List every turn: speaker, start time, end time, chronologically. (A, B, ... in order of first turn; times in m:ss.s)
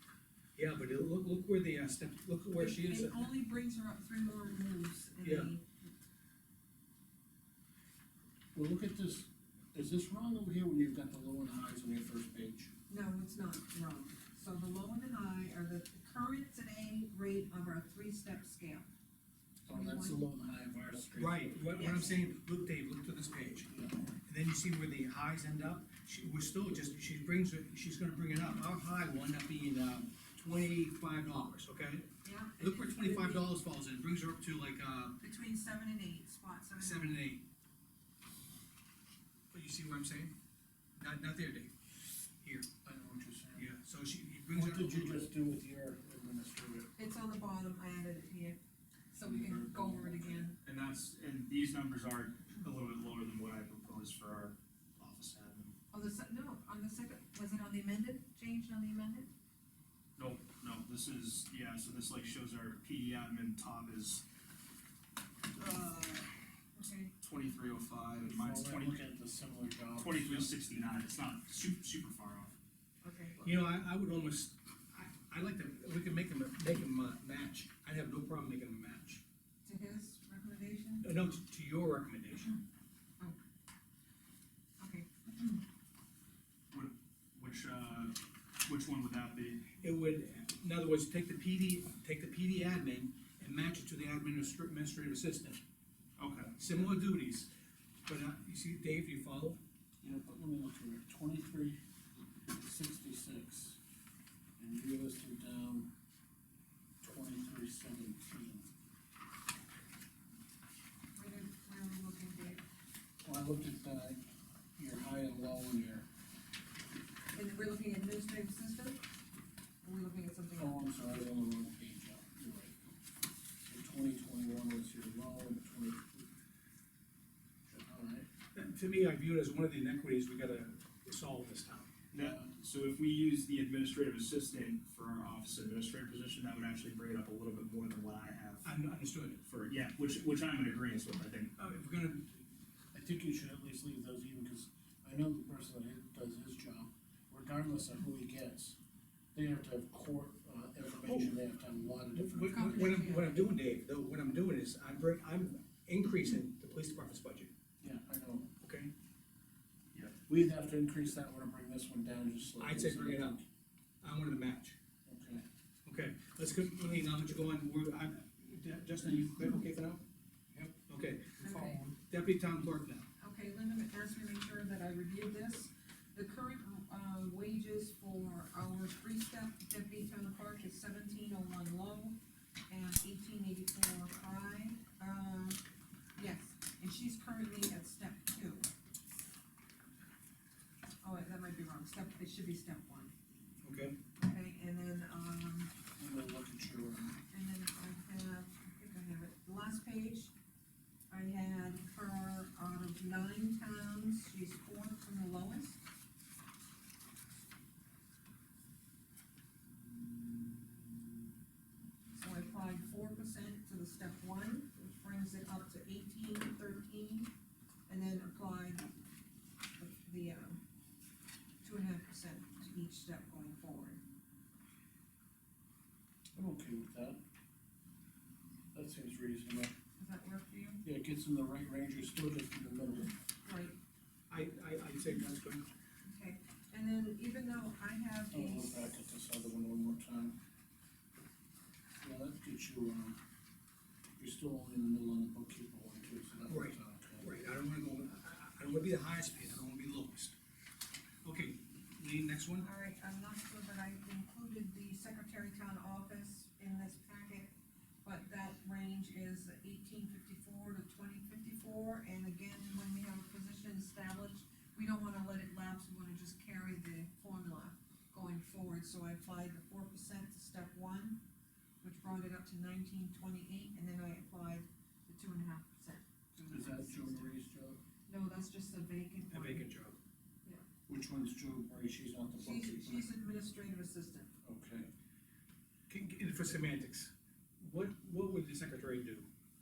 0:00.6-0:03.2 A
0:02.6-0:05.7 B
0:05.2-0:05.5 A
0:08.5-0:12.7 C
0:12.9-0:18.9 B
0:19.7-0:21.7 C
0:19.7-0:20.2 B
0:21.2-0:23.7 A
0:21.7-0:22.2 B
0:23.7-0:24.1 C
0:24.2-0:35.2 A
0:32.2-0:33.5 B
0:35.2-0:37.2 B
0:36.8-0:37.4 A
0:39.5-0:40.3 A
0:41.0-0:41.7 A
0:42.4-0:42.7 A
0:42.8-0:43.7 C
0:43.6-0:45.3 A
0:44.5-0:46.9 C
0:47.0-0:48.6 B
0:49.1-0:50.6 B
0:49.2-0:50.4 C
0:50.6-0:55.8 D
0:55.9-0:59.3 B
1:00.2-1:04.2 D
1:05.5-1:06.3 D
1:06.8-1:07.1 B
1:07.2-1:09.0 D
1:08.2-1:10.5 C
1:10.0-1:12.5 D
1:13.0-1:13.7 B
1:13.4-1:19.2 A
1:19.6-1:21.1 B
1:21.0-1:22.5 A
1:24.8-1:25.6 B
1:26.7-1:29.7 D
1:29.8-1:35.6 A
1:36.2-1:36.8 D
1:36.6-1:37.5 A
1:38.1-1:39.6 A
1:40.0-1:41.8 C
1:42.5-1:43.8 C
1:44.6-1:45.9 C
1:47.0-1:48.7 C
1:51.2-1:52.6 B
1:53.2-1:56.1 C
1:57.3-1:59.0 B
1:59.8-2:00.8 B
2:00.6-2:02.8 C
2:03.6-2:06.3 C
2:07.7-2:08.3 C
2:08.6-2:11.9 A
2:12.1-2:18.7 D
2:12.1-2:12.5 C
2:18.6-2:19.4 A
2:19.5-2:21.5 D
2:21.6-2:22.4 A
2:22.9-2:28.8 C
2:29.3-2:33.0 C
2:31.0-2:31.3 A
2:32.2-2:37.5 A
2:32.5-2:33.5 B
2:37.8-2:38.5 C
2:38.6-2:38.9 A
2:40.3-2:43.4 C
2:42.6-2:43.4 A
2:44.0-2:44.8 A
2:45.0-2:45.4 C
2:45.8-2:50.0 A
2:50.6-2:53.1 A
2:51.4-2:51.8 B
2:53.2-3:02.2 B
3:02.7-3:05.6 B
3:06.2-3:08.7 B
3:11.0-3:13.1 B
3:13.6-3:14.0 A
3:14.2-3:15.7 B
3:16.0-3:17.2 C
3:17.3-3:20.3 B
3:21.1-3:25.8 B
3:32.2-3:37.3 B
3:37.9-3:38.9 B
3:39.8-3:40.6 B
3:41.6-3:44.0 B
3:46.4-3:47.2 C
3:48.7-3:49.7 C
3:50.0-3:50.8 B
3:50.8-3:53.1 C
3:53.4-3:53.8 B
3:54.3-3:55.7 A
3:56.0-3:58.9 B
3:58.3-4:00.4 C
4:02.0-4:03.2 C
4:04.2-4:07.3 C
4:06.5-4:10.4 A
4:11.2-4:12.7 A
4:12.6-4:31.2 B
4:31.8-4:37.3 B
4:36.5-4:37.8 C
4:38.1-4:39.7 B
4:39.3-4:40.0 A
4:40.9-4:43.1 C
4:42.4-4:44.3 B
4:44.4-4:44.9 C
4:45.9-4:49.3 A